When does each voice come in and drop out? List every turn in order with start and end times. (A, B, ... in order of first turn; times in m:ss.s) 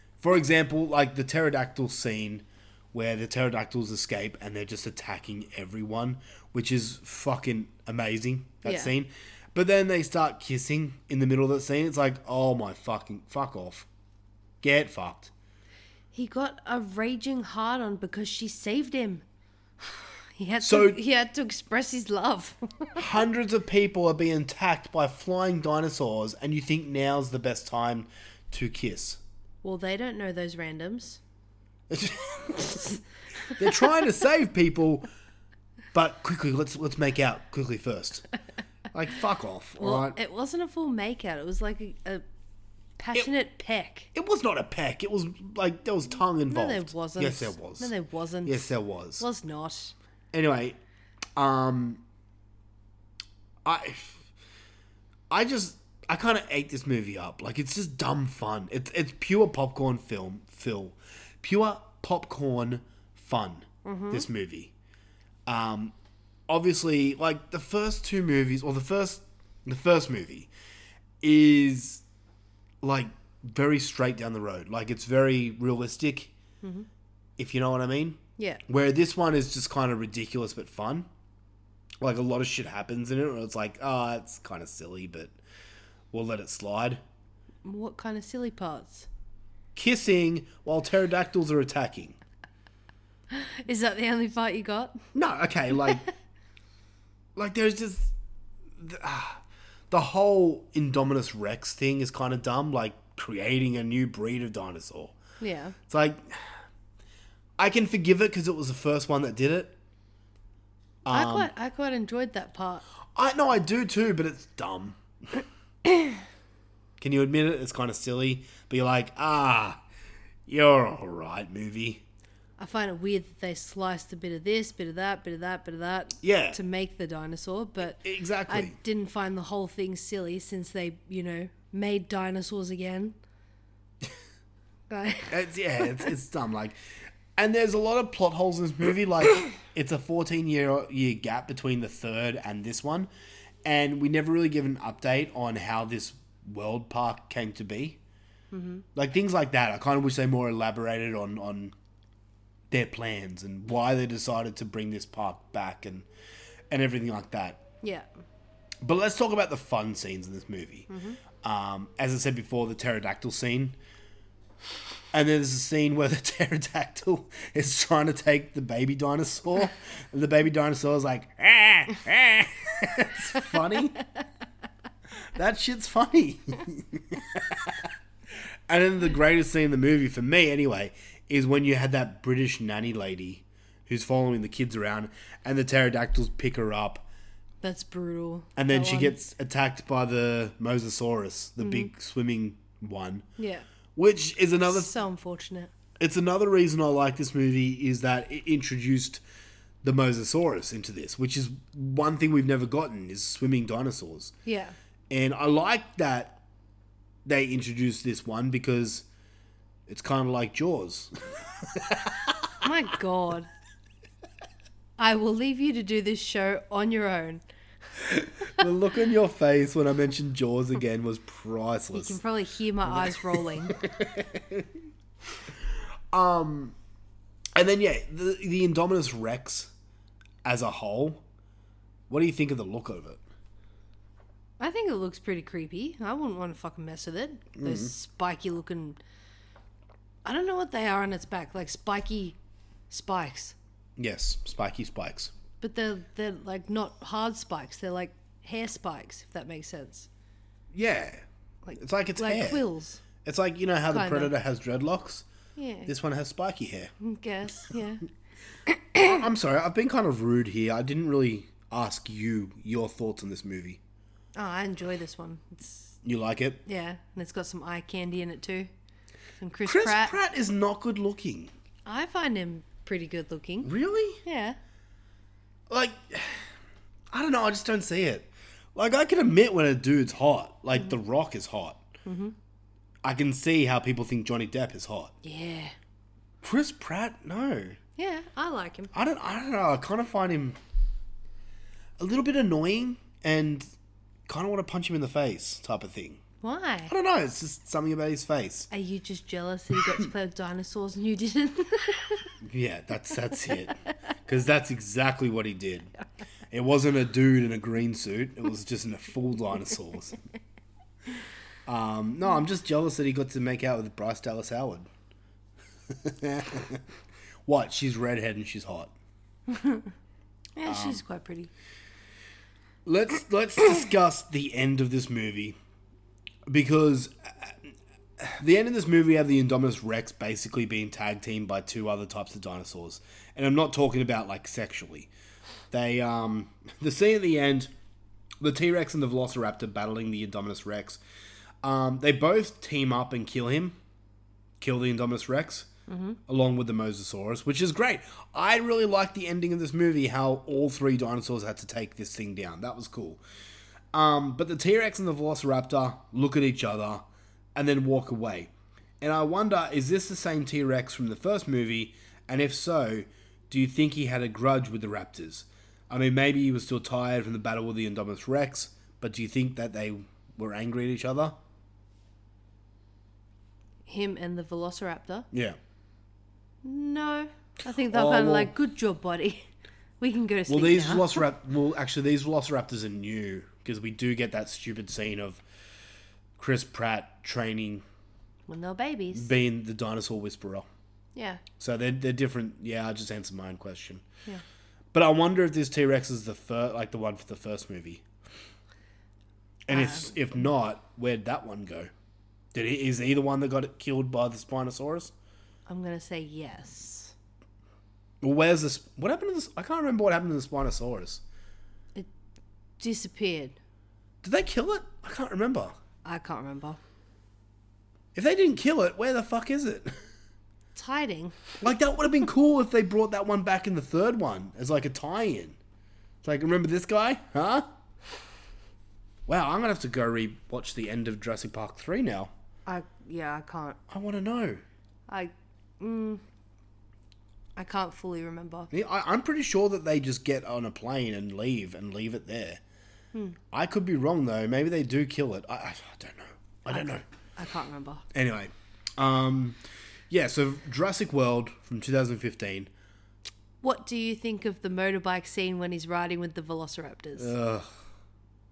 0:00.2-0:13.9 A
0:08.6-0:08.9 B
0:14.6-0:15.3 A
0:16.1-0:19.2 B
0:20.4-0:23.0 B
0:20.6-0:21.0 A
0:23.0-0:29.2 A
0:29.6-0:31.2 B
0:31.9-0:33.0 A
0:33.5-0:35.1 A
0:35.9-0:38.3 A
0:38.9-0:40.2 A
0:39.8-0:42.2 B
0:43.0-0:44.1 B
0:44.1-0:47.9 A
0:46.5-0:49.9 B
0:48.4-0:49.2 A
0:50.3-0:50.8 A
0:51.4-0:52.0 A
0:53.6-0:54.3 A
0:55.3-1:04.7 A
1:03.8-1:04.2 B
1:05.5-1:05.9 A
1:06.5-1:10.5 A
1:11.2-1:12.0 A
1:12.8-1:16.3 A
1:16.6-1:16.9 B
1:17.4-1:21.1 A
1:22.0-1:25.3 A
1:26.1-1:27.0 A
1:27.6-1:29.1 B
1:29.7-1:32.2 A
1:33.3-1:35.0 B
1:35.1-1:36.0 A
1:37.4-1:38.1 A
1:38.8-1:45.2 A
1:45.4-1:45.8 B
1:45.9-1:46.5 A
1:47.6-1:49.7 A
1:51.0-1:51.5 A
1:51.1-1:52.8 B
1:53.1-1:55.0 A
1:57.0-1:59.8 A
2:00.5-2:02.0 A
2:02.6-2:13.1 B
2:06.2-2:06.6 A
2:08.0-2:08.8 A
2:14.9-2:15.4 B
2:15.3-2:16.8 A
2:17.4-2:23.1 A
2:23.6-2:28.0 A
2:28.5-2:28.8 B
2:28.9-2:31.7 A
2:32.7-2:36.1 A
2:36.7-2:37.6 A
2:37.8-2:38.1 B
2:38.8-2:40.9 A
2:40.9-2:41.2 B
2:41.4-2:43.8 A
2:45.1-2:54.0 A
2:55.3-2:57.8 A
2:58.7-3:07.0 A
3:07.6-3:09.2 B
3:08.6-3:13.3 A
3:11.6-3:11.9 B
3:13.4-3:13.6 B
3:14.0-3:14.9 A
3:14.6-3:15.7 B
3:16.0-3:19.2 A
3:19.8-3:24.3 A
3:24.4-3:24.7 B
3:25.1-3:26.4 A
3:27.2-3:29.0 A
3:29.9-3:32.4 A
3:32.6-3:33.5 B
3:35.0-3:37.4 B
3:38.2-3:42.2 A
3:41.9-3:43.8 B
3:42.9-3:44.6 A
3:46.1-3:46.8 A
3:47.5-3:49.7 A
3:50.4-3:51.2 A
3:52.1-3:53.2 A
3:54.6-3:59.0 B
3:57.6-3:57.9 A
4:00.2-4:02.4 B
4:02.9-4:03.6 B
4:04.0-4:05.3 A
4:05.6-4:10.1 B
4:10.7-4:11.2 A
4:11.6-4:13.0 B
4:11.8-4:12.6 A
4:13.2-4:15.2 A
4:13.9-4:14.3 B
4:15.6-4:15.9 B
4:15.9-4:16.9 A
4:17.0-4:18.0 B
4:19.0-4:23.8 A
4:24.3-4:25.9 B
4:26.0-4:26.6 A
4:26.6-4:28.7 B
4:29.4-4:30.2 B
4:29.6-4:31.5 A
4:31.8-4:33.7 B
4:33.6-4:34.2 A
4:34.2-4:34.6 B
4:35.7-4:36.4 A
4:37.1-4:41.8 A
4:42.0-4:42.3 B
4:43.0-4:45.1 A
4:45.2-4:45.7 B
4:46.4-4:47.8 A
4:48.0-4:48.9 B
4:48.9-4:50.6 A
4:52.0-4:53.7 A
4:54.3-4:56.2 A
4:56.4-4:56.9 B
4:56.9-4:58.7 A
4:58.7-5:02.3 B
5:02.4-5:05.9 A
5:06.5-5:10.2 A
5:11.6-5:14.9 A
5:15.9-5:16.8 A
5:17.4-5:18.9 A
5:19.5-5:19.9 B
5:20.6-5:21.5 B
5:20.6-5:21.0 A
5:22.8-5:25.6 A
5:26.5-5:35.1 A
5:35.7-5:37.7 A
5:38.4-5:41.0 A
5:41.6-5:43.8 A
5:44.6-5:45.7 A
5:45.9-5:46.2 B
5:46.3-5:53.2 A
5:53.9-5:57.0 A
5:57.5-6:11.4 A
6:13.9-6:15.3 B
6:15.3-6:15.6 A
6:16.6-6:19.5 B
6:17.8-6:18.5 A
6:20.0-6:21.2 B
6:20.5-6:25.4 A
6:26.4-6:27.8 A
6:28.5-6:29.3 B
6:29.1-6:30.7 A
6:31.1-6:31.4 B
6:31.6-6:34.0 A
6:34.9-6:38.0 A
6:39.7-6:41.9 A
6:39.7-6:40.4 B
6:42.5-6:45.1 A
6:45.7-6:47.1 B
6:48.2-6:51.2 A
6:52.8-6:53.6 B
6:54.2-6:55.8 A
6:56.0-6:56.8 B
6:58.1-7:00.0 A
7:00.7-7:01.4 B
7:01.6-7:05.6 A
7:06.2-7:07.7 A
7:09.3-7:12.3 A
7:12.6-7:13.8 B
7:13.9-7:14.6 A
7:15.1-7:16.2 B
7:17.6-7:18.7 B
7:18.7-7:22.6 A
7:23.5-7:27.0 A
7:26.7-7:28.0 B
7:28.1-7:29.6 A
7:30.1-7:32.7 A
7:33.6-7:37.3 B
7:37.2-7:37.7 A